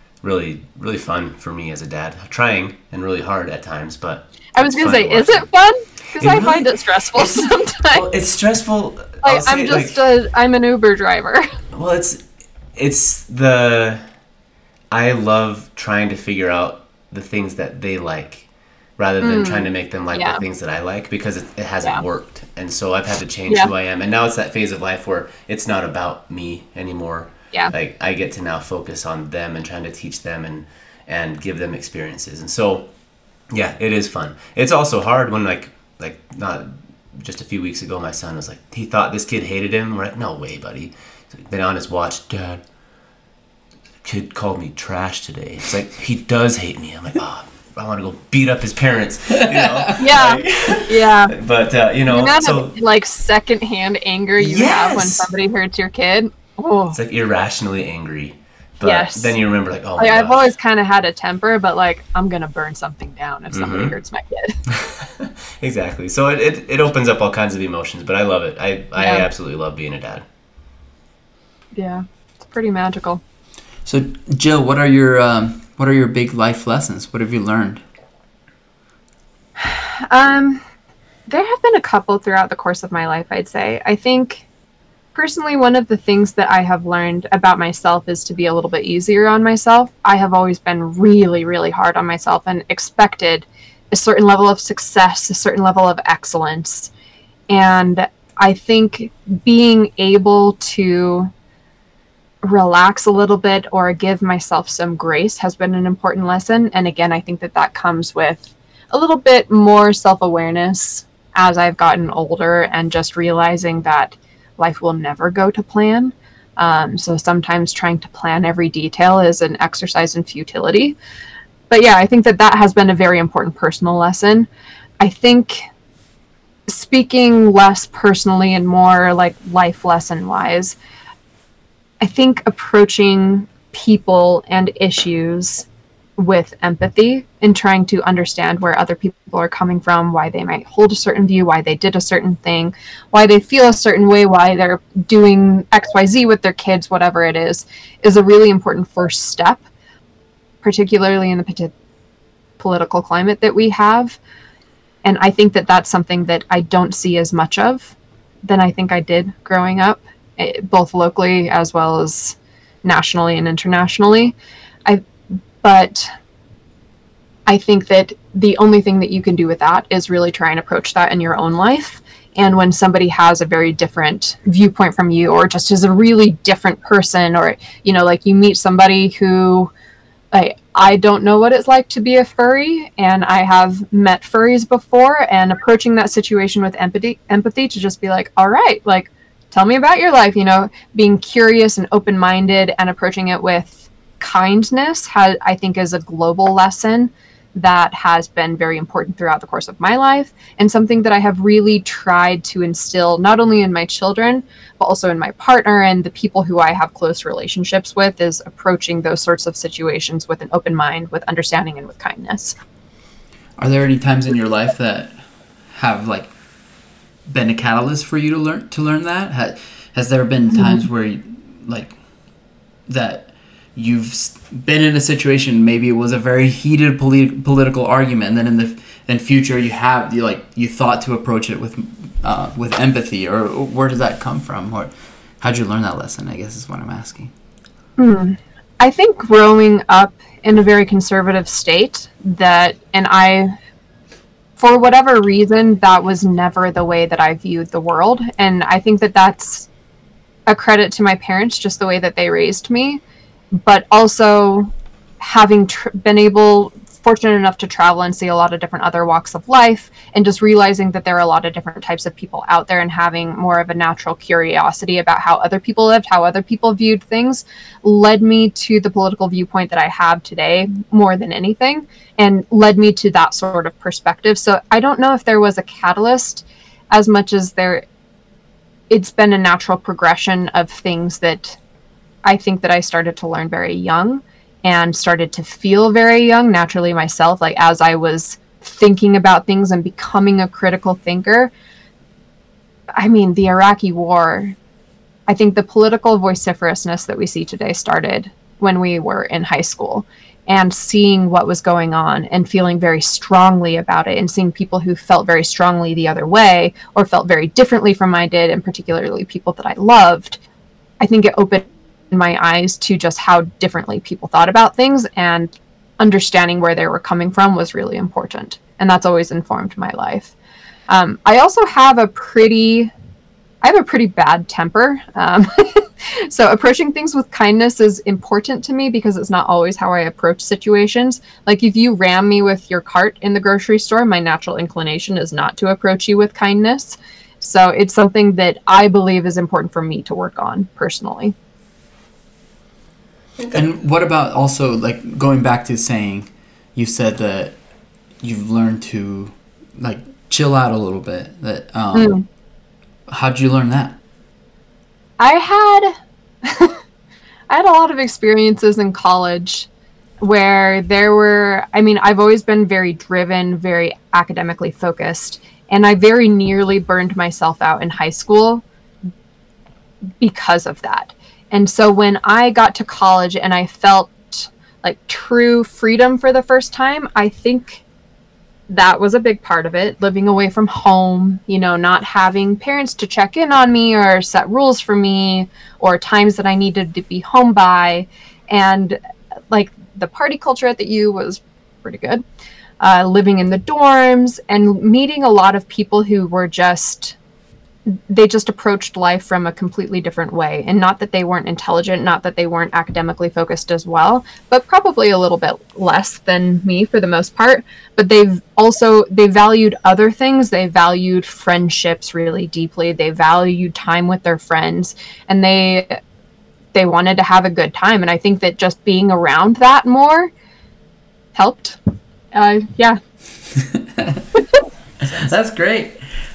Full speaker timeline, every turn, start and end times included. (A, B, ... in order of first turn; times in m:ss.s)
0:00.2-0:05.4 A
0:04.6-0:08.0 B
0:06.2-0:10.0 A
0:09.2-0:11.5 B
0:11.7-0:12.2 A
0:12.7-0:14.0 A
0:14.9-0:32.9 A
0:19.2-0:20.4 B
0:33.5-0:42.6 A
0:44.0-0:52.7 A
0:49.3-0:50.1 C
0:50.0-0:51.3 B
0:52.1-0:57.0 B
0:54.4-0:55.0 C
0:54.5-0:55.1 A
0:56.9-1:00.5 A
0:58.8-0:59.3 B
1:00.0-1:04.6 B
1:03.5-1:03.9 A
1:04.7-1:10.2 A
1:09.0-1:09.3 B
1:11.7-1:13.2 B
1:13.8-1:17.8 C
1:19.6-1:20.6 B
1:21.3-1:24.4 B
1:25.1-1:36.9 B
1:37.5-1:41.3 B
1:42.4-2:01.0 B
2:01.7-2:04.5 B
2:05.0-2:05.7 B
2:06.7-2:10.8 B
2:12.0-2:15.6 B
2:16.2-2:29.6 B
2:30.6-2:31.7 B
2:32.6-2:34.2 B
2:35.0-2:37.9 B
2:38.4-2:44.3 B
2:45.6-2:46.1 B
2:47.5-2:59.7 B
3:00.3-3:32.6 B
3:33.6-3:35.2 C
3:35.7-3:36.3 C
3:37.3-3:42.0 C
3:40.5-3:40.8 B
3:42.9-3:57.3 C
3:58.0-4:03.5 B
4:04.6-4:09.7 B
4:10.5-4:13.0 B
4:13.6-4:37.8 B
4:38.9-4:41.6 B
4:42.2-4:51.5 B
4:53.0-4:54.6 B
4:55.3-5:10.4 B
5:11.0-5:20.3 B
5:20.9-5:22.9 B
5:23.6-5:41.3 B
5:43.5-5:47.6 C
5:48.2-5:52.2 C
5:51.9-5:52.2 B
5:53.1-5:54.0 C
5:55.2-5:56.8 B
5:57.5-5:59.7 B
6:00.2-6:08.6 B
6:10.2-6:17.8 B
6:18.7-6:29.0 B
6:29.5-6:32.2 B
6:32.8-6:37.1 B
6:37.9-6:56.0 B
6:56.7-7:00.3 B
7:01.3-7:01.8 B
7:02.3-7:03.0 B
7:03.6-7:04.2 C
7:05.0-7:05.3 A
7:05.1-7:06.0 C